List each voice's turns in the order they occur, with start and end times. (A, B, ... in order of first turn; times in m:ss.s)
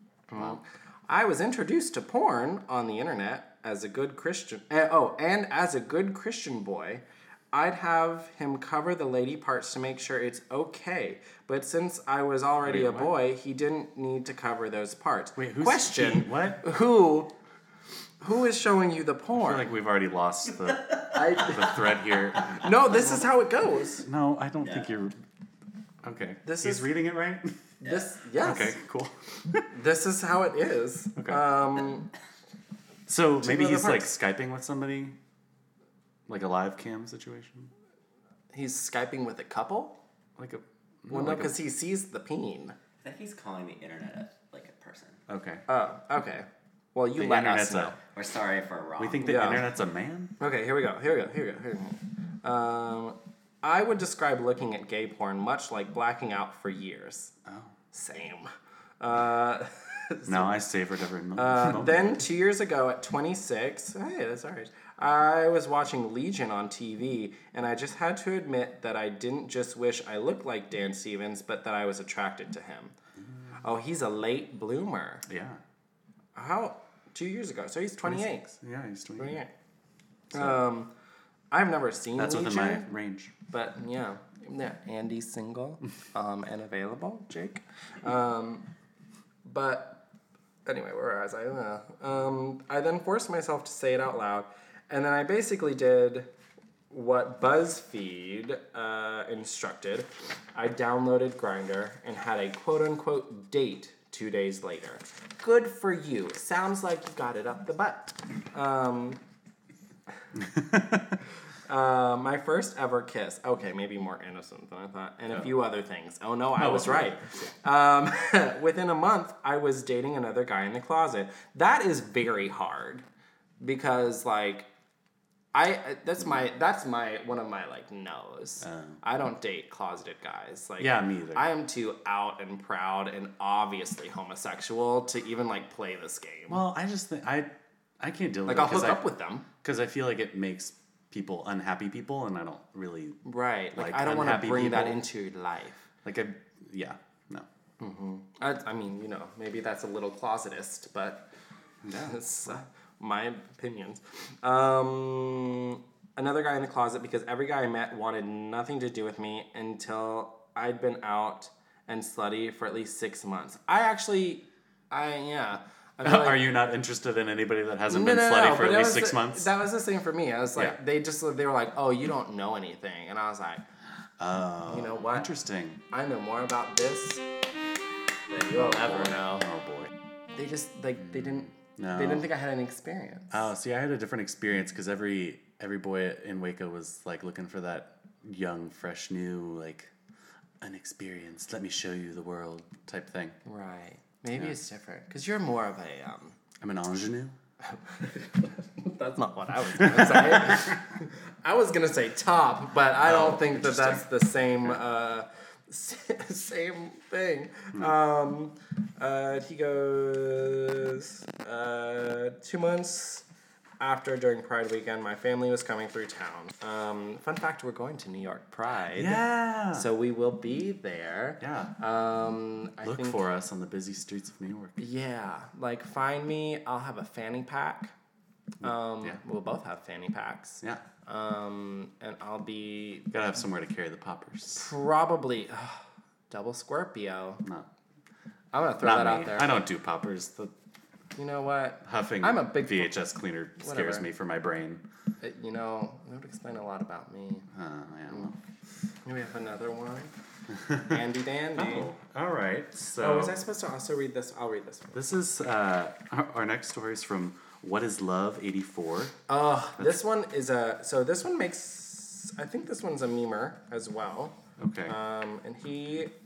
0:00.3-0:17.3 A
0:12.6-0:13.1 B
0:15.4-0:16.6 B
0:18.2-0:19.6 A
0:19.4-0:23.2 B
0:21.1-0:21.8 A
0:22.5-0:24.0 A
0:24.0-0:25.2 B
0:26.0-0:27.6 B
0:26.4-0:26.9 A
0:27.8-0:28.8 A
0:28.4-0:29.6 B
0:29.7-0:32.1 A
0:33.1-0:35.2 B
0:33.4-0:34.1 A
0:36.3-0:37.7 B
0:38.5-0:40.0 A
0:40.4-0:41.5 B
0:41.1-0:42.8 A
0:43.0-0:45.2 C
0:45.3-0:45.6 B
0:45.7-0:48.0 A
0:47.2-0:48.0 B
0:48.1-0:49.2 C
0:49.0-0:50.3 B
0:49.2-0:49.6 A
0:50.4-0:57.3 A
0:57.4-0:57.7 B
0:57.9-0:58.5 A
0:59.0-1:00.6 A
1:00.2-1:02.2 B
1:01.4-1:12.9 A
1:13.6-1:15.2 A
1:15.3-1:15.6 B
1:16.4-1:18.6 A
1:18.0-1:19.4 B
1:19.2-1:19.5 A
1:20.3-1:20.9 A
1:20.3-1:20.6 B
1:21.5-1:22.9 A
1:22.2-1:23.3 B
1:23.5-1:28.7 A
1:29.4-1:30.0 A
1:30.6-1:36.3 A
1:36.9-1:49.2 A
1:50.4-1:51.1 B
1:51.7-2:03.0 A
1:56.6-1:57.2 B
2:03.6-2:04.7 A
2:05.5-2:16.6 A
2:08.7-2:09.0 B
2:10.8-2:11.4 B
2:16.5-2:19.0 B
2:18.4-2:19.4 A
2:19.6-2:23.2 B
2:23.2-2:25.8 A
2:23.7-2:25.0 B
2:26.0-2:27.5 B
2:27.8-2:31.3 A
2:31.8-2:32.5 B
2:31.9-2:46.5 A
2:46.0-2:49.5 B
2:47.9-2:53.6 A
2:54.2-2:55.8 B
2:54.7-2:55.3 A
2:55.9-2:57.2 A
2:58.3-2:59.5 A
2:58.4-2:59.9 B
3:00.3-3:03.4 A
3:01.5-3:02.3 B
3:03.3-3:09.9 B
3:10.6-3:13.4 B
3:13.4-3:16.4 A
3:16.6-3:17.4 B
3:17.7-3:33.2 A
3:19.8-3:20.7 B
3:23.0-3:24.0 B
3:33.8-3:43.2 A
3:38.9-3:39.9 B
3:41.4-3:41.7 B
3:42.8-3:44.8 B
3:44.8-3:47.9 A
3:48.6-3:53.1 A
3:48.6-3:49.2 B
3:53.1-3:54.7 B
3:54.5-3:57.4 A
3:58.5-3:59.6 A
3:58.8-4:00.5 B
4:01.2-4:03.0 A
4:01.8-4:04.8 B
4:03.6-4:04.1 A
4:05.2-4:07.5 A
4:07.5-4:08.4 B
4:09.0-4:10.1 A
4:10.5-4:11.0 B
4:10.8-4:11.9 A
4:11.6-4:13.4 B
4:13.0-4:15.0 A
4:14.9-4:19.2 B
4:19.3-4:26.1 A
4:24.6-4:24.9 B